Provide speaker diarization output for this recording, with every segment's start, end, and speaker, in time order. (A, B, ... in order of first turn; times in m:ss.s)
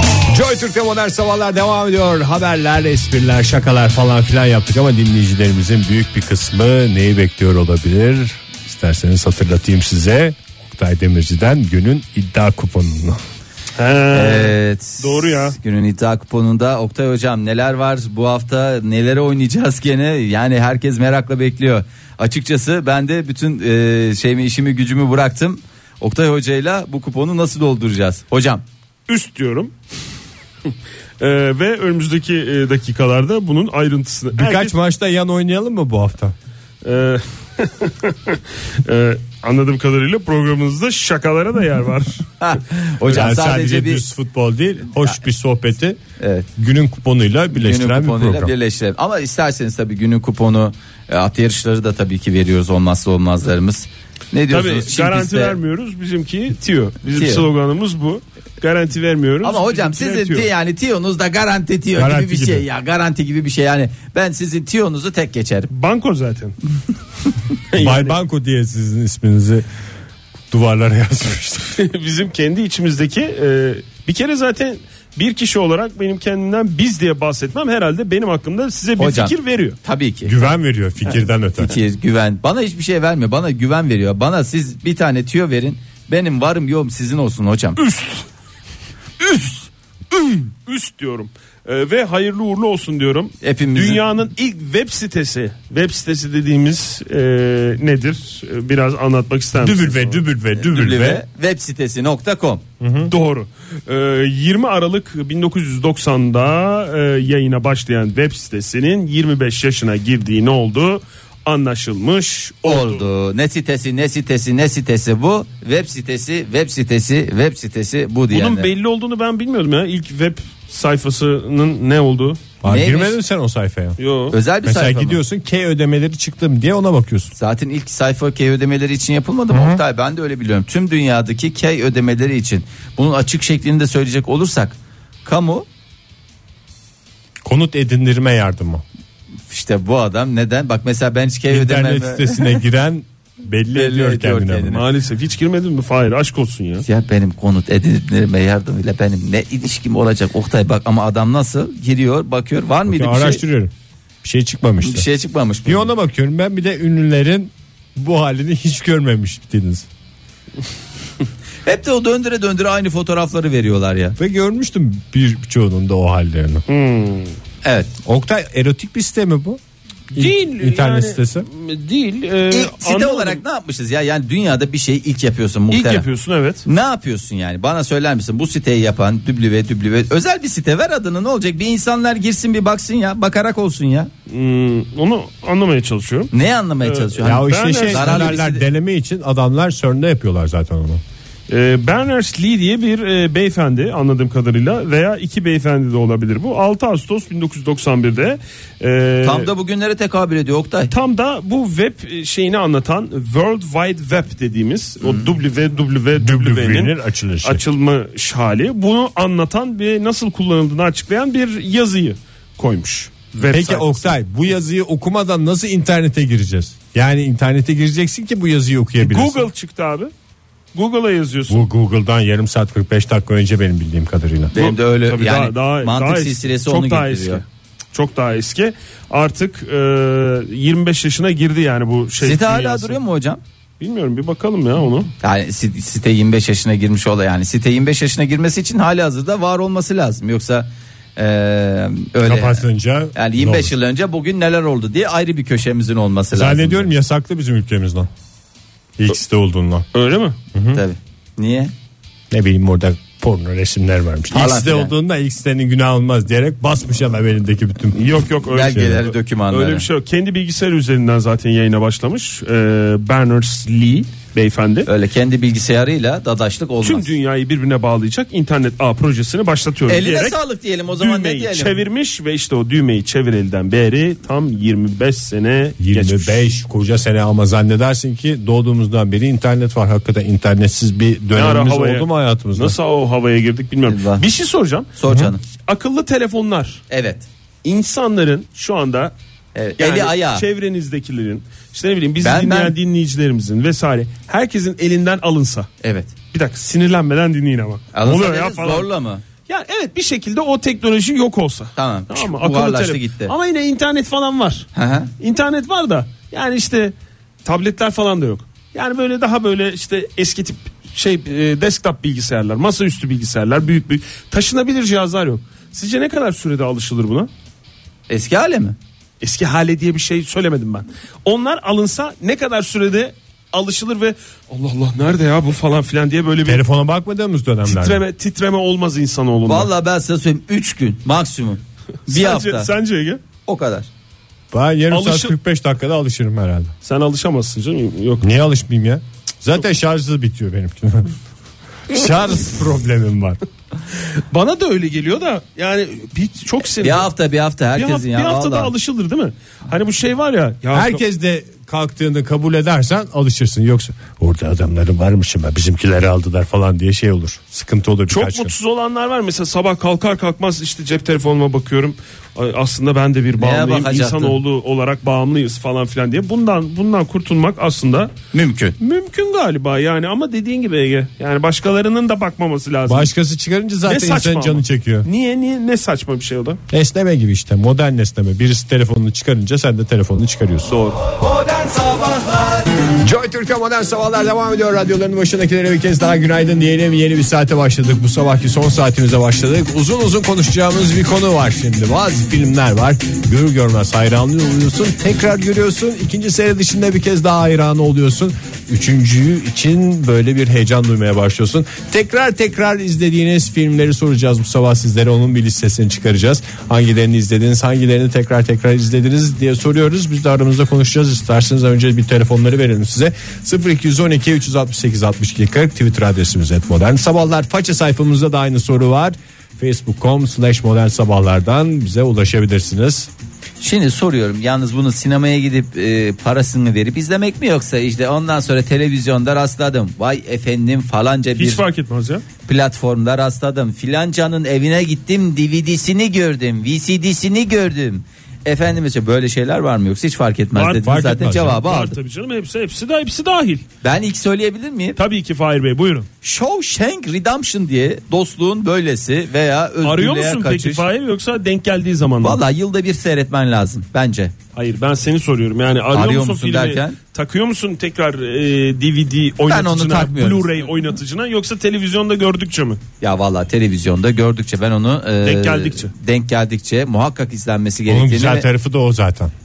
0:00.3-0:13.2 A
0:13.8-0:15.6 B
0:14.1-0:28.6 C
0:29.1-0:29.7 B
0:31.2-0:34.7 B
0:34.4-0:36.3 A
0:36.8-0:42.3 B
0:42.4-0:44.0 C
0:43.1-0:46.0 A
0:44.9-0:45.2 C
0:46.2-0:46.5 C
0:46.6-0:48.5 A
0:47.6-0:55.6 C
0:54.5-1:00.5 B
0:57.1-0:57.4 C
0:59.4-1:05.7 C
1:02.0-1:02.6 A
1:05.7-1:06.6 B
1:07.7-1:08.2 B
1:07.8-1:09.7 A
1:10.5-1:11.8 A
1:11.8-1:19.8 B
1:19.0-1:20.5 C
1:20.3-1:21.8 A
1:21.6-1:27.8 C
1:27.8-1:28.2 B
1:29.2-1:29.5 B
1:30.1-1:40.2 B
1:33.4-1:34.0 C
1:39.6-1:41.2 A
1:40.6-1:42.6 C
1:42.8-1:43.1 A
1:43.1-1:53.0 B
1:52.6-1:58.7 C
1:58.3-2:02.4 B
2:02.6-2:04.0 A
2:02.7-2:03.2 C
2:04.0-2:04.4 B
2:04.3-2:05.2 C
2:04.6-2:07.3 A
2:07.4-2:15.7 C
2:09.5-2:09.8 A
2:17.4-2:18.8 A
2:19.5-2:22.5 C
2:21.5-2:24.8 A
2:23.7-2:24.8 C
2:24.7-2:26.9 B
2:26.9-2:33.4 C
2:32.9-2:33.7 A
2:34.2-2:35.1 A
2:34.8-2:35.9 C
2:35.6-2:39.9 A
2:41.7-2:44.2 C
2:44.2-2:46.6 A
2:46.7-2:47.3 B
2:47.6-2:47.9 C
2:48.0-2:49.6 A
2:50.1-2:51.5 A
2:50.1-2:53.4 B
2:52.5-2:56.1 C
2:55.7-2:56.6 B
2:56.7-3:04.1 C
3:04.3-3:08.4 B
3:06.3-3:08.6 C
3:07.2-3:11.0 A
3:11.5-3:19.5 B
3:19.2-3:20.9 C
3:20.9-3:34.2 B
3:26.2-3:27.6 A
3:33.5-3:39.5 A
3:39.0-3:40.1 B
3:40.7-3:41.6 B
3:41.5-3:44.5 A
3:44.5-3:47.4 C
3:44.6-3:53.0 B
3:52.2-3:53.4 C
3:53.8-3:55.1 B
3:55.2-4:02.6 C
4:02.2-4:03.7 A
4:03.2-4:06.9 C
4:06.3-4:08.1 A
4:09.0-4:09.9 A
4:09.9-4:10.4 B
4:10.5-4:10.8 A
4:10.7-4:11.7 C
4:12.3-4:19.0 A
4:14.3-4:14.9 C
4:18.0-4:24.9 B
4:18.5-4:19.9 C
4:24.9-4:27.1 C
4:26.8-4:30.4 B
4:29.9-4:31.8 C
4:31.0-4:36.4 B
4:35.8-4:42.8 A
4:41.4-4:44.9 B
4:43.9-4:44.2 C
4:45.0-4:45.4 C
4:45.6-4:46.8 B
4:46.9-4:47.3 C
4:47.6-4:49.1 B
4:49.6-4:50.4 C
4:49.8-4:55.7 B
4:52.2-4:52.8 C
4:55.8-4:56.1 C
4:56.3-4:58.9 B
4:57.9-4:59.2 C
4:59.5-5:04.7 B
5:01.8-5:03.3 C
5:04.8-5:05.1 C
5:05.2-5:06.9 B
5:07.4-5:17.3 B
5:18.1-5:18.8 C
5:19.2-5:26.6 B
5:26.4-5:28.0 A
5:27.7-5:29.7 B
5:29.5-5:32.7 C
5:32.1-5:33.2 B
5:33.5-5:33.9 C
5:34.5-5:36.7 A
5:34.9-5:35.3 B
5:36.8-5:38.3 B
5:38.2-5:41.1 A
5:41.9-5:43.4 A
5:44.3-5:47.1 B
5:46.8-5:48.7 C
5:47.8-5:51.0 B
5:50.7-5:58.5 A
5:58.1-6:08.1 B
6:03.4-6:04.4 C
6:08.3-6:08.8 C
6:08.8-6:13.1 B
6:12.9-6:15.1 A
6:13.9-6:16.6 B
6:16.7-6:20.7 A
6:20.7-6:21.0 B
6:22.9-7:03.1 A
7:03.6-7:11.6 C
7:11.4-7:12.2 B
7:12.5-7:22.0 C
7:20.6-7:23.6 B
7:20.8-7:21.6 A
7:23.8-7:25.0 C
7:25.0-7:26.1 B
7:26.2-7:30.8 C
7:29.8-7:32.4 B
7:32.2-7:34.3 C
7:34.6-7:42.8 B
7:35.9-7:37.0 C
7:39.5-7:40.5 C
7:43.0-7:48.5 C
7:45.2-7:45.9 B
7:47.9-7:49.3 A